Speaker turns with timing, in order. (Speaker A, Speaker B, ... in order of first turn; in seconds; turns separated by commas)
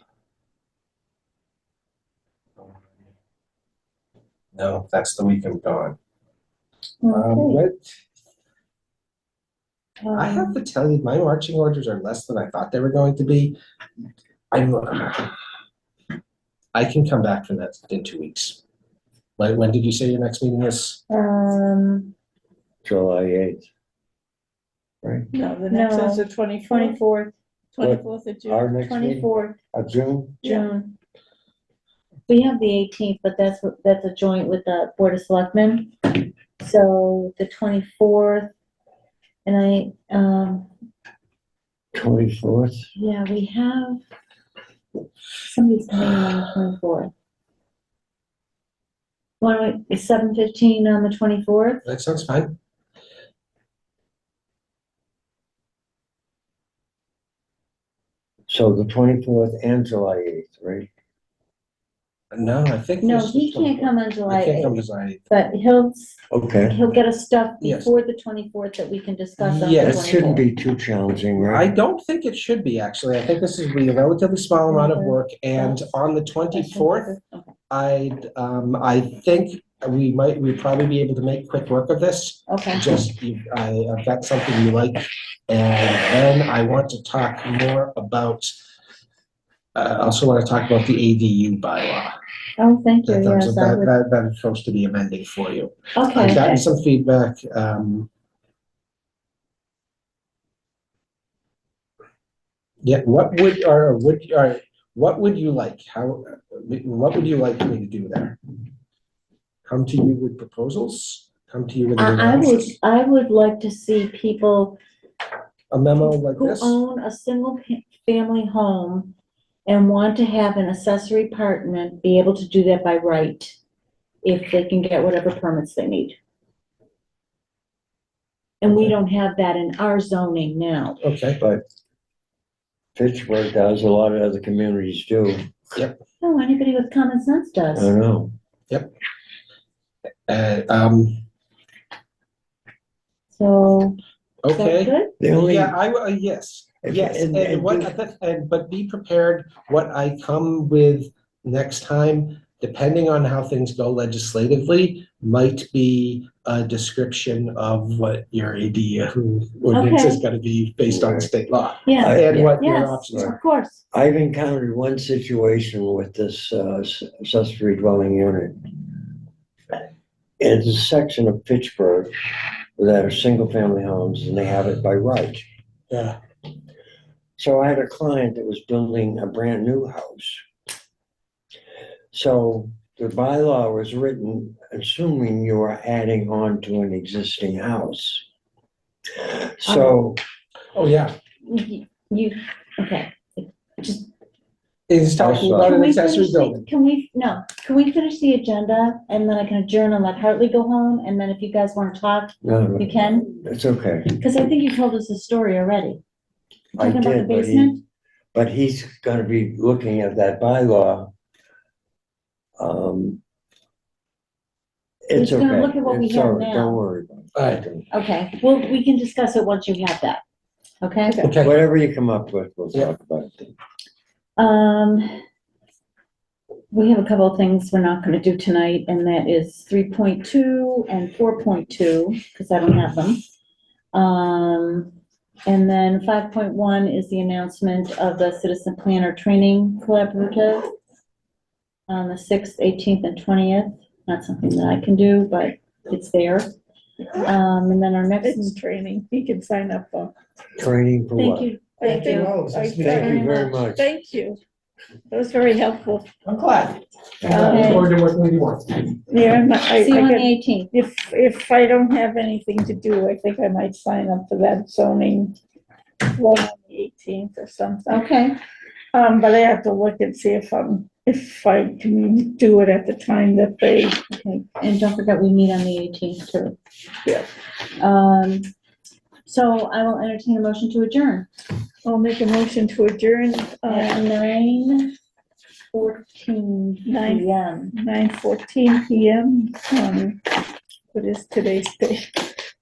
Speaker A: 4.5-6.0, Speaker B: 7.0-7.6, Speaker A: 7.1-7.8, Speaker B: 10.0-10.6, Speaker A: 10.2-13.6, Speaker A: 14.5-15.4, Speaker A: 16.7-18.6, Speaker A: 19.4-21.0, Speaker B: 21.1-22.1, Speaker C: 22.8-23.7, Speaker C: 25.0-25.3, Speaker D: 25.3-27.1, Speaker B: 25.7-27.3, Speaker D: 27.7-28.7, Speaker C: 27.8-30.4, Speaker B: 28.8-29.6, Speaker D: 30.4-30.7, Speaker B: 30.4-30.9, Speaker B: 32.3-36.1, Speaker B: 36.6-38.5, Speaker B: 39.5-40.7, Speaker C: 41.9-42.9, Speaker B: 43.0-44.0, Speaker B: 45.5-47.1, Speaker B: 49.4-51.8, Speaker A: 51.9-52.6, Speaker C: 58.5-60.9, Speaker A: 62.3-65.2, Speaker B: 63.0-70.5, Speaker C: 66.3-66.8, Speaker A: 67.6-68.0, Speaker A: 69.4-70.1, Speaker C: 69.8-71.7, Speaker A: 71.4-77.2, Speaker B: 74.7-77.5, Speaker A: 77.7-88.5, Speaker B: 82.5-82.9, Speaker A: 89.8-92.2, Speaker B: 92.6-93.9, Speaker A: 93.1-98.1, Speaker B: 96.0-96.6, Speaker A: 102.8-108.4, Speaker A: 109.7-112.8, Speaker B: 112.0-114.8, Speaker A: 115.7-116.8, Speaker B: 116.0-119.1, Speaker B: 119.7-123.6, Speaker B: 124.2-126.2, Speaker B: 128.6-131.0, Speaker A: 131.0-131.4, Speaker C: 133.0-135.5, Speaker B: 136.2-137.9, Speaker C: 137.8-138.3, Speaker A: 140.3-141.2, Speaker B: 143.3-144.0, Speaker A: 144.4-163.3, Speaker B: 144.5-145.1, Speaker C: 145.2-145.8, Speaker C: 146.8-147.9, Speaker B: 159.7-160.2, Speaker C: 160.8-161.3, Speaker B: 161.9-163.8, Speaker C: 162.0-163.3, Speaker C: 163.9-169.0, Speaker C: 170.4-172.1, Speaker C: 172.8-175.4, Speaker A: 175.9-176.2, Speaker C: 177.4-180.4, Speaker C: 182.1-188.2, Speaker C: 189.2-190.2, Speaker A: 189.7-189.9, Speaker A: 190.7-191.1, Speaker B: 191.4-194.1, Speaker A: 194.9-196.7, Speaker C: 195.2-195.8, Speaker B: 195.6-203.3, Speaker C: 202.4-204.2, Speaker B: 204.2-206.0, Speaker C: 206.8-207.8, Speaker B: 206.8-207.8, Speaker C: 208.3-211.1, Speaker C: 212.6-213.2, Speaker C: 215.1-217.9, Speaker B: 215.1-216.8, Speaker A: 217.4-217.6, Speaker B: 217.9-220.2, Speaker B: 220.8-221.2, Speaker D: 221.1-221.3, Speaker A: 221.2-221.6, Speaker C: 221.4-223.6, Speaker B: 224.4-225.1, Speaker B: 226.7-233.2, Speaker B: 233.9-234.9, Speaker B: 235.5-240.7, Speaker B: 241.9-246.5, Speaker B: 247.2-248.6, Speaker D: 248.2-250.1, Speaker C: 250.6-251.5, Speaker B: 251.2-252.3, Speaker D: 251.8-254.4, Speaker A: 251.8-253.2, Speaker C: 252.8-253.9, Speaker D: 255.1-256.1, Speaker A: 256.2-258.9, Speaker B: 257.3-257.9, Speaker D: 257.3-257.9, Speaker D: 259.1-265.4, Speaker B: 259.8-260.7, Speaker D: 266.0-268.1, Speaker B: 267.9-268.4, Speaker D: 268.9-274.0, Speaker B: 274.1-276.6, Speaker B: 277.8-278.5, Speaker B: 279.2-281.3, Speaker D: 281.9-284.0, Speaker B: 283.7-284.9, Speaker B: 285.7-287.7, Speaker D: 286.9-290.2, Speaker D: 290.9-292.3